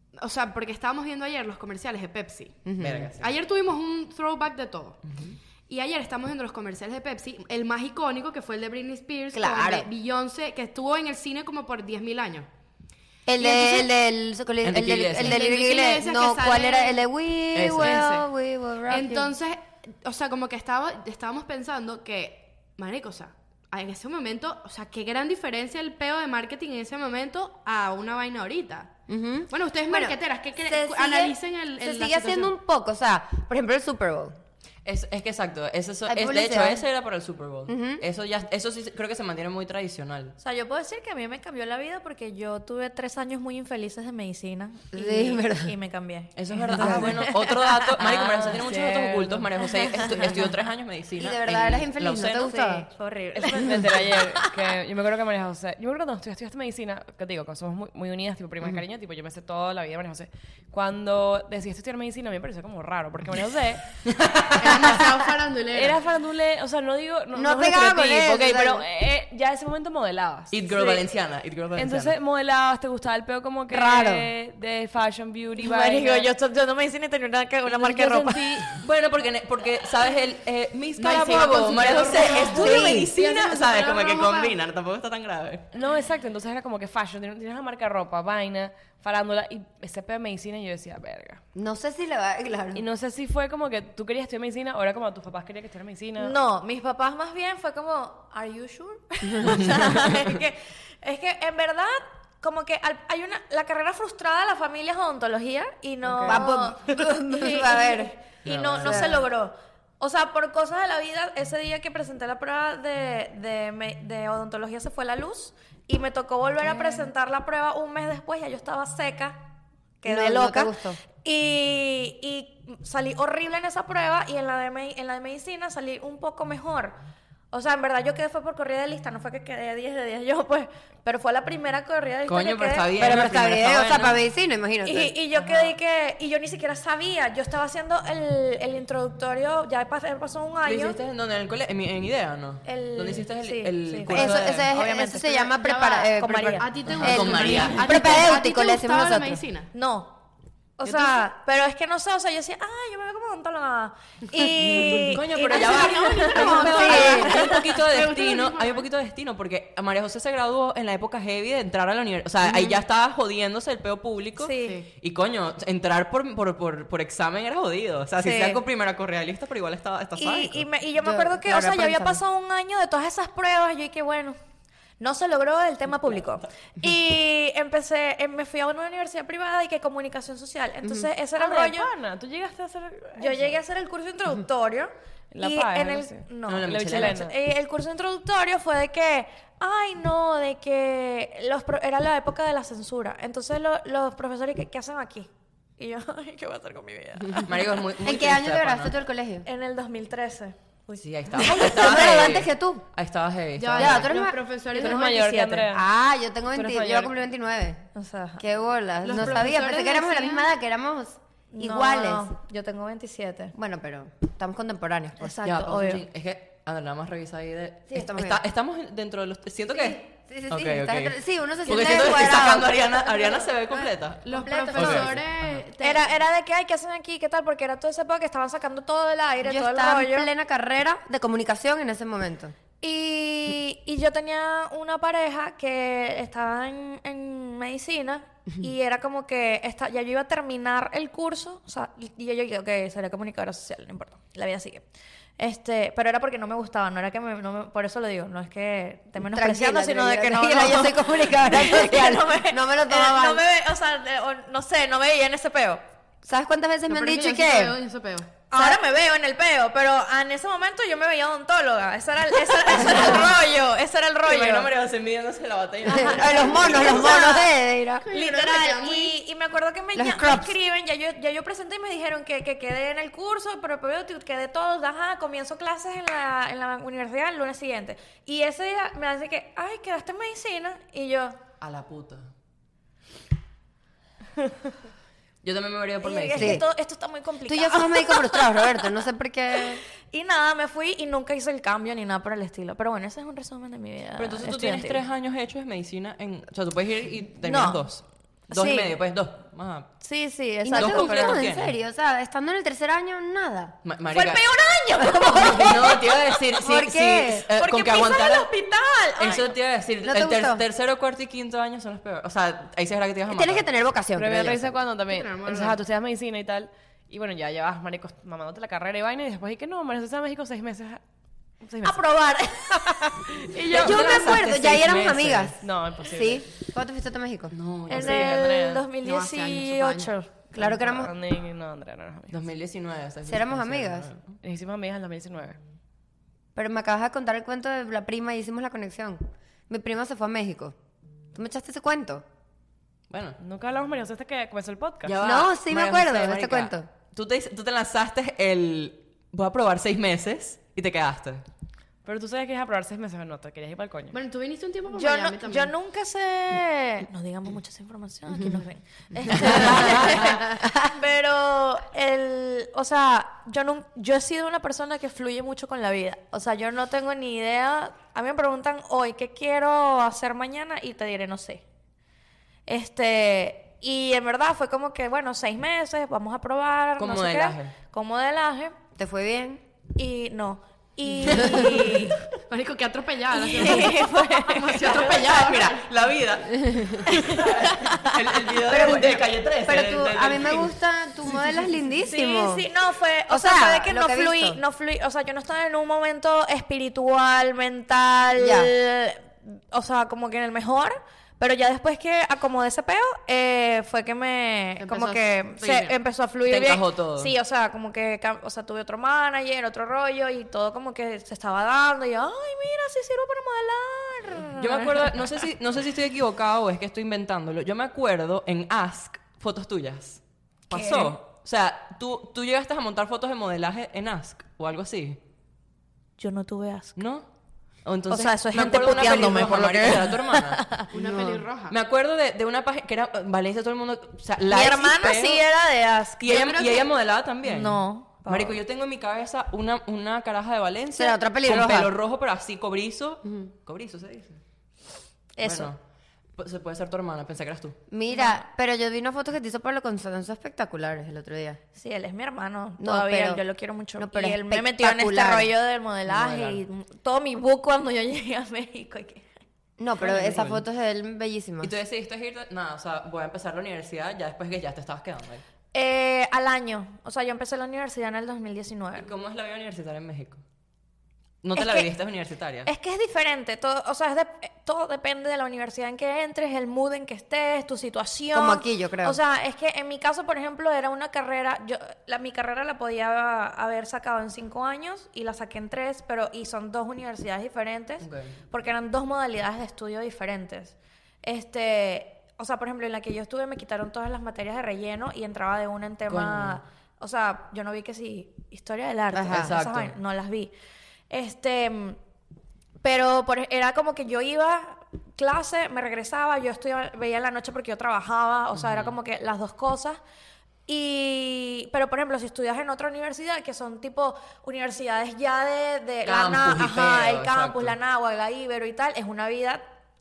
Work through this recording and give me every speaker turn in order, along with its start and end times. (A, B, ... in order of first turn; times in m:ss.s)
0:00.2-0:05.0 A
0:02.6-0:03.1 B
0:02.8-0:03.3 C
0:05.0-0:05.4 C
0:05.7-0:12.5 A
0:09.3-0:09.9 B
0:13.3-0:19.3 B
0:13.4-0:13.9 A
0:14.6-0:15.4 C
0:15.2-0:17.0 A
0:17.5-0:18.0 C
0:17.8-0:18.3 A
0:18.9-0:29.0 A
0:29.1-0:30.2 B
0:29.5-0:32.5 A
0:30.7-0:31.3 D
0:31.8-0:34.4 B
0:34.8-0:40.4 C
0:36.1-0:36.8 B
0:37.7-0:38.0 B
0:40.4-0:48.3 D
0:44.9-0:45.7 B
0:46.3-0:52.8 C
0:46.8-0:47.0 E
0:46.8-0:47.1 B
0:48.0-0:49.5 E
0:50.0-0:50.4 E
0:51.2-0:52.9 B
0:52.5-0:54.5 D
0:53.3-1:03.8 E
1:04.0-1:04.8 C
1:04.6-1:06.0 A
1:05.7-1:11.1 E
1:07.3-1:08.8 B
1:10.5-1:12.1 C
1:11.7-1:16.3 E
1:13.7-1:14.3 B
1:15.6-1:18.7 D
1:17.6-1:18.8 E
1:18.7-1:25.7 C
1:21.0-1:24.6 A
1:22.5-1:23.1 B
1:25.7-1:31.4 E
1:31.5-1:32.8 B
1:32.7-1:36.4 E
1:36.2-1:59.4 D
1:46.2-1:48.1 B
1:48.4-1:49.2 C
1:48.8-1:49.2 B
2:00.0-2:07.0 D
2:00.0-2:01.0 B
2:07.5-2:13.2 D
2:12.3-2:14.2 C
2:13.0-2:15.1 B
2:14.8-2:21.0 D
2:20.6-2:24.7 C
2:22.6-2:25.4 D
2:24.1-2:29.4 B
2:25.3-2:29.7 A
2:26.1-2:26.6 D
2:26.9-2:28.2 C
2:29.7-2:30.2 D
2:30.8-2:37.6 D
2:30.9-2:31.2 A
2:34.8-2:50.7 C
2:35.4-2:38.8 A
2:36.6-2:37.4 B
2:42.4-2:42.8 B
2:44.4-2:44.8 D
2:44.6-2:44.9 A
2:48.2-2:48.6 D
2:50.2-2:54.4 D
2:51.0-2:52.2 B
2:55.0-3:01.9 D
3:00.8-3:01.1 B
3:01.4-3:03.5 E
3:03.2-3:17.7 D
3:05.3-3:07.3 E
3:06.5-3:07.2 C
3:17.4-3:18.9 C
3:18.0-3:19.4 B
3:19.4-3:22.1 D
3:21.0-3:24.1 C
3:21.4-3:22.8 B
3:23.6-3:25.0 A
3:23.8-3:24.4 B
3:24.7-3:25.7 D
3:24.7-3:25.8 E
3:25.7-3:27.8 B
3:26.5-3:27.1 E
3:27.9-3:28.4 D
3:28.4-3:32.3 B
3:29.0-3:30.5 A
3:31.5-3:33.5 D
3:33.5-3:35.8 B
3:35.2-3:36.0 D
3:35.4-3:45.6 C
3:37.9-3:38.4 B
3:39.7-3:45.2 B
3:44.2-3:46.1 A
3:45.8-3:50.3 D
3:49.4-3:52.5 B
3:52.8-4:04.8 D
4:05.4-4:15.8 D
4:09.3-4:13.4 B
4:16.2-4:17.8 B
4:16.9-4:18.3 A
4:18.5-4:24.7 D
4:18.5-4:18.8 B
4:22.8-4:23.3 C
4:24.2-4:27.0 C
4:25.8-4:28.0 B
4:25.9-4:27.5 D
4:28.0-4:29.1 A
4:28.1-4:41.4 D
4:29.9-4:30.5 B
4:41.6-4:42.3 C
4:45.4-4:46.6 C
4:46.0-4:48.9 D
4:46.3-4:46.6 B
4:47.5-4:49.8 B
4:50.1-4:55.0 D
4:54.2-4:59.9 C
4:57.4-4:57.8 D
4:58.5-4:59.0 D
5:00.0-5:01.4 D
5:00.6-5:03.8 B
5:00.7-5:01.7 C
5:03.8-5:04.4 C
5:04.1-5:06.3 D
5:05.1-5:08.5 C
5:06.6-5:07.5 B
5:07.6-5:09.5 D
5:09.2-5:13.6 C
5:10.0-5:10.6 B
5:13.3-5:14.7 B
5:14.2-5:21.0 E
5:15.1-5:15.8 A
5:21.6-5:22.1 E
5:21.8-5:23.2 D
5:22.7-5:24.3 E
5:23.7-5:25.6 C
5:23.7-5:27.5 B
5:25.6-5:26.5 E
5:27.5-5:28.5 C
5:27.9-5:30.3 D
5:27.9-5:28.8 E
5:29.0-5:30.1 A
5:30.5-5:31.1 B
5:30.5-5:32.4 E
5:32.3-5:34.4 C
5:33.2-5:34.1 B
5:34.4-5:35.6 E
5:36.5-5:40.7 B
5:41.3-5:42.2 B
5:43.1-5:43.4 C
5:43.4-5:45.1 E
5:45.0-5:51.4 C
5:45.2-5:46.9 B
5:52.0-5:54.2 E
5:54.1-5:55.7 A
5:54.9-6:11.6 D
5:59.3-6:00.4 C
6:00.3-6:00.7 B
6:12.7-6:18.7 D
6:17.0-6:17.7 C
6:19.0-6:19.6 B
6:20.0-6:22.2 D
6:22.5-6:25.9 A
6:23.3-6:25.1 D
6:24.6-6:30.7 C
6:26.6-6:27.0 B
6:27.0-6:28.2 D
6:28.6-6:32.7 B
6:32.0-6:55.4 D
6:33.3-6:34.6 B
6:38.4-6:38.7 B
6:44.8-6:46.0 A
6:46.5-6:47.3 C
6:54.6-7:05.2 C
7:00.7-7:01.1 D
7:06.2-7:07.0 D
7:07.0-7:07.2 C
7:07.8-7:15.4 C
7:08.1-7:10.9 D
7:10.9-7:11.8 A
7:14.5-7:16.5 D
7:16.2-7:24.4 C
7:16.2-7:16.9 A
7:17.4-7:18.6 D
7:20.9-7:21.9 B
7:25.4-7:25.7 D
7:25.4-7:25.8 C
7:26.4-7:27.8 C
7:27.9-7:31.6 B
7:28.1-7:28.4 D
7:31.7-7:39.3 D
7:32.8-7:33.4 B
7:34.0-7:35.5 B
7:36.1-7:36.6 C
7:39.8-7:41.7 B
7:40.0-7:40.6 C
7:41.6-7:45.4 C
7:45.7-7:49.1 D
7:49.0-7:50.4 C
7:51.4-7:52.7 C
7:51.6-7:51.9 D
7:52.6-8:20.5 D
7:58.3-7:59.2 B
8:08.0-8:08.3 C
8:16.1-8:16.6 C
8:19.1-8:19.5 B
8:19.3-8:19.9 C
8:21.1-8:22.0 D
8:22.8-8:30.0 D
8:28.5-8:28.9 C
8:30.7-8:39.6 D
8:36.0-8:37.7 C